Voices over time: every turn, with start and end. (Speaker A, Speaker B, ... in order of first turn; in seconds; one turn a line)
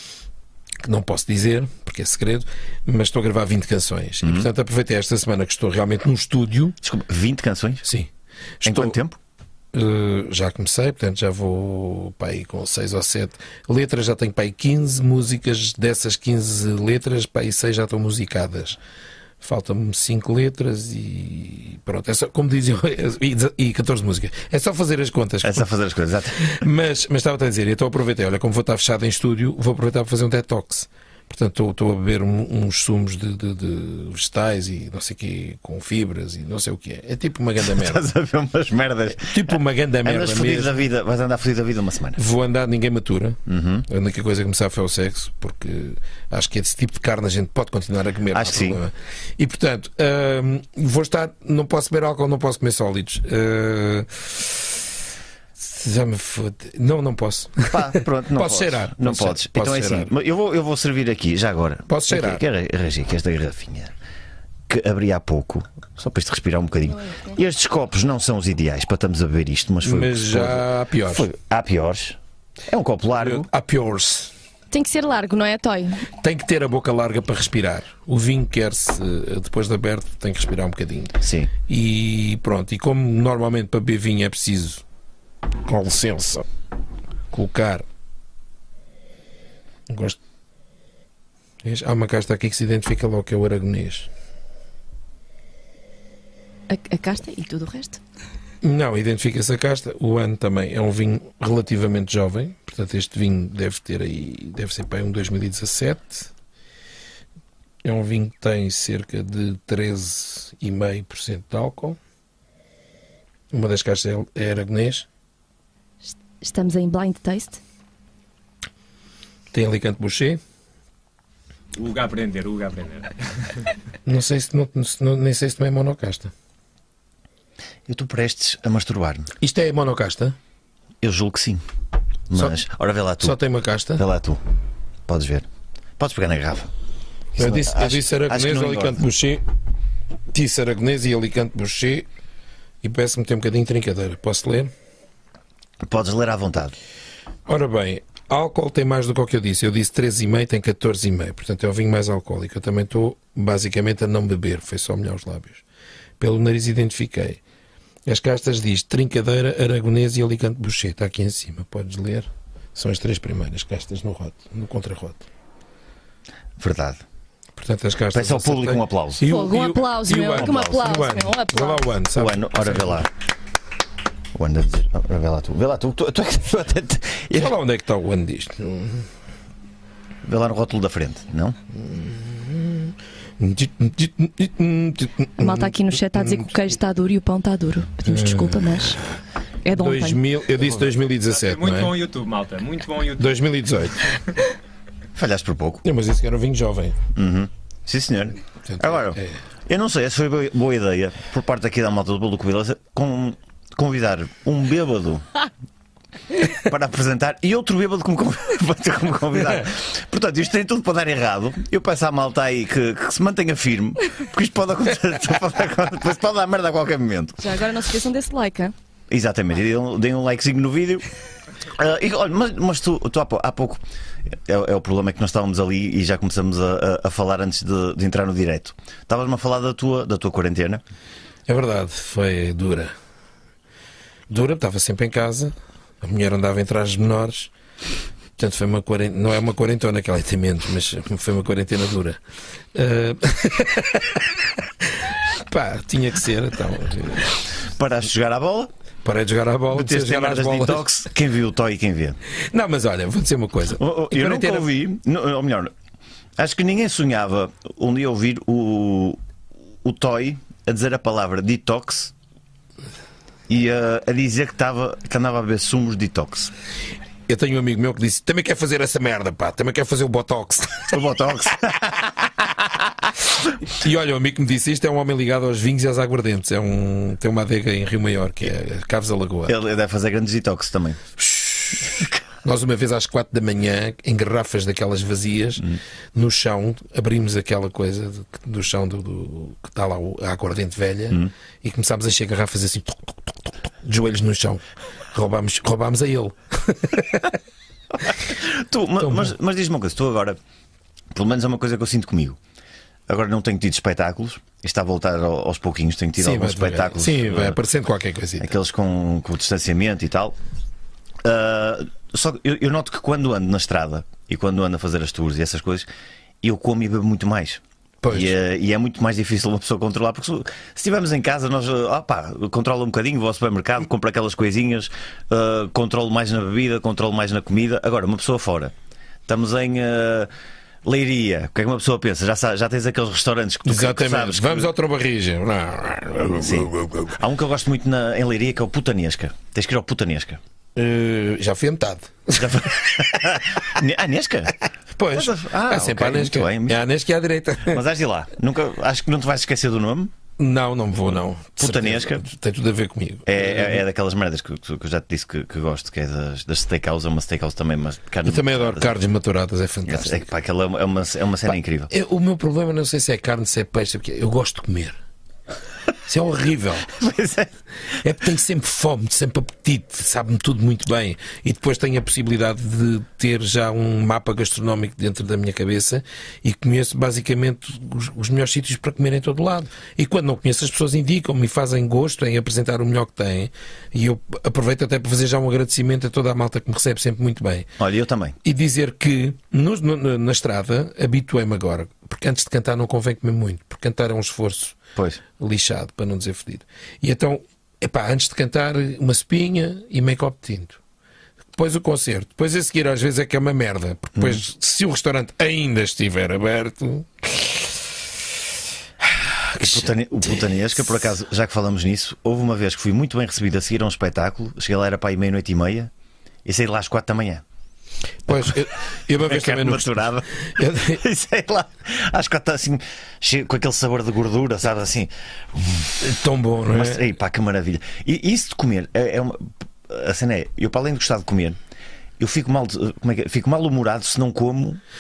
Speaker A: 0.8-6.8
Speaker B: 4.2-4.5
Speaker B: 6.8-7.8
Speaker A: 7.8-8.1
Speaker A: 8.6-8.9
Speaker B: 8.6-9.2
Speaker A: 9.7-18.8
Speaker A: 19.4-25.7
Speaker B: 25.4-26.5
Speaker A: 26.4-38.0
Speaker B: 37.6-39.4
Speaker A: 39.2-40.8
Speaker B: 40.0-42.2
Speaker A: 42.2-54.9
Speaker B: 43.5-43.9
Speaker B: 48.3-48.8
Speaker A: 55.6-60.1
Speaker B: 57.7-63.9
Speaker A: 61.9-62.4
Speaker B: 64.7-73.5
Speaker A: 69.8-71.3
Speaker A: 73.2-74.3
Speaker C: 74.7-76.1
Speaker A: 76.2-84.8
Speaker B: 81.2-81.5
Speaker A: 85.7-86.5
Speaker A: 87.3-87.8
Speaker A: 89.9-90.2
Speaker A: 91.6-94.1
Speaker C: 96.7-98.0
Speaker A: 98.6-106.3
Speaker A: 107.8-112.0
Speaker A: 113.5-115.1
Speaker C: 116.1-117.6
Speaker A: 119.5-120.4
Speaker D: 121.7-123.6
Speaker A: 124.0-126.3
Speaker B: 127.9-129.3
Speaker A: 129.4-130.3
Speaker B: 131.0-131.6
Speaker B: 132.3-133.4
Speaker A: 133.2-134.0
Speaker B: 134.0-134.4
Speaker B: 135.1-135.5
Speaker B: 136.0-136.7
Speaker A: 137.3-139.4
Speaker B: 137.4-139.0
Speaker A: 140.3-142.1
Speaker A: 142.8-144.7
Speaker B: 145.8-146.8
Speaker A: 147.5-155.6
Speaker A: 156.2-157.4
Speaker A: 158.1-165.2
Speaker B: 166.6-167.0
Speaker A: 167.6-173.0
Speaker B: 168.1-169.2
Speaker C: 169.2-171.8
Speaker B: 170.4-170.8
Speaker B: 172.2-173.1
Speaker B: 174.3-177.5
Speaker A: 177.3-179.1
Speaker B: 180.2-181.6
Speaker A: 181.8-186.5
Speaker C: 185.4-189.0
Speaker A: 188.1-189.0
Speaker C: 189.6-190.2
Speaker A: 189.7-191.9
Speaker D: 191.3-193.3
Speaker A: 193.2-194.0
Speaker B: 195.2-195.8
Speaker A: 195.8-197.0
Speaker B: 197.2-205.2
Speaker A: 198.7-199.4
Speaker B: 206.5-217.4
Speaker C: 217.4-218.7
Speaker B: 219.1-221.1
Speaker B: 221.7-223.8
Speaker B: 224.5-230.8
Speaker A: 231.5-232.9
Speaker A: 234.3-237.5
Speaker A: 238.4-242.2
Speaker A: 242.7-247.3
Speaker B: 247.7-248.7
Speaker A: 249.0-251.1
Speaker B: 249.7-252.2
Speaker A: 252.5-254.7
Speaker B: 253.8-255.7
Speaker B: 256.4-259.2
Speaker B: 259.8-262.1
Speaker B: 263.5-266.5
Speaker A: 267.3-271.0
Speaker B: 270.9-272.1
Speaker A: 273.7-279.5
Speaker B: 279.5-281.0
Speaker A: 281.2-285.6
Speaker A: 286.1-297.4
Speaker B: 298.1-300.4
Speaker A: 299.0-299.3
Speaker B: 301.1-302.4
Speaker B: 303.1-307.6
Speaker A: 306.2-308.5
Speaker B: 308.4-310.4
Speaker B: 311.2-315.9
Speaker B: 316.4-328.7
Speaker A: 318.0-318.4
Speaker B: 329.3-330.3
Speaker B: 330.8-334.7
Speaker A: 333.6-337.1
Speaker B: 336.4-340.4
Speaker A: 340.8-343.2
Speaker B: 342.3-344.6
Speaker A: 344.9-347.8
Speaker B: 345.1-346.8
Speaker B: 347.7-350.1
Speaker A: 350.4-353.8
Speaker B: 351.6-352.2
Speaker B: 353.2-358.9
Speaker A: 358.2-360.3
Speaker B: 359.9-361.9
Speaker A: 361.5-365.0
Speaker A: 366.1-366.9
Speaker B: 366.9-367.5
Speaker A: 368.0-387.7
Speaker B: 387.8-388.4
Speaker A: 388.4-394.8
Speaker A: 395.4-400.8
Speaker A: 401.6-407.8
Speaker A: 409.0-409.9
Speaker B: 409.6-415.9
Speaker B: 416.4-417.4
Speaker A: 418.3-421.0
Speaker B: 419.1-426.1
Speaker A: 426.0-427.0
Speaker B: 426.7-431.6
Speaker B: 432.2-434.8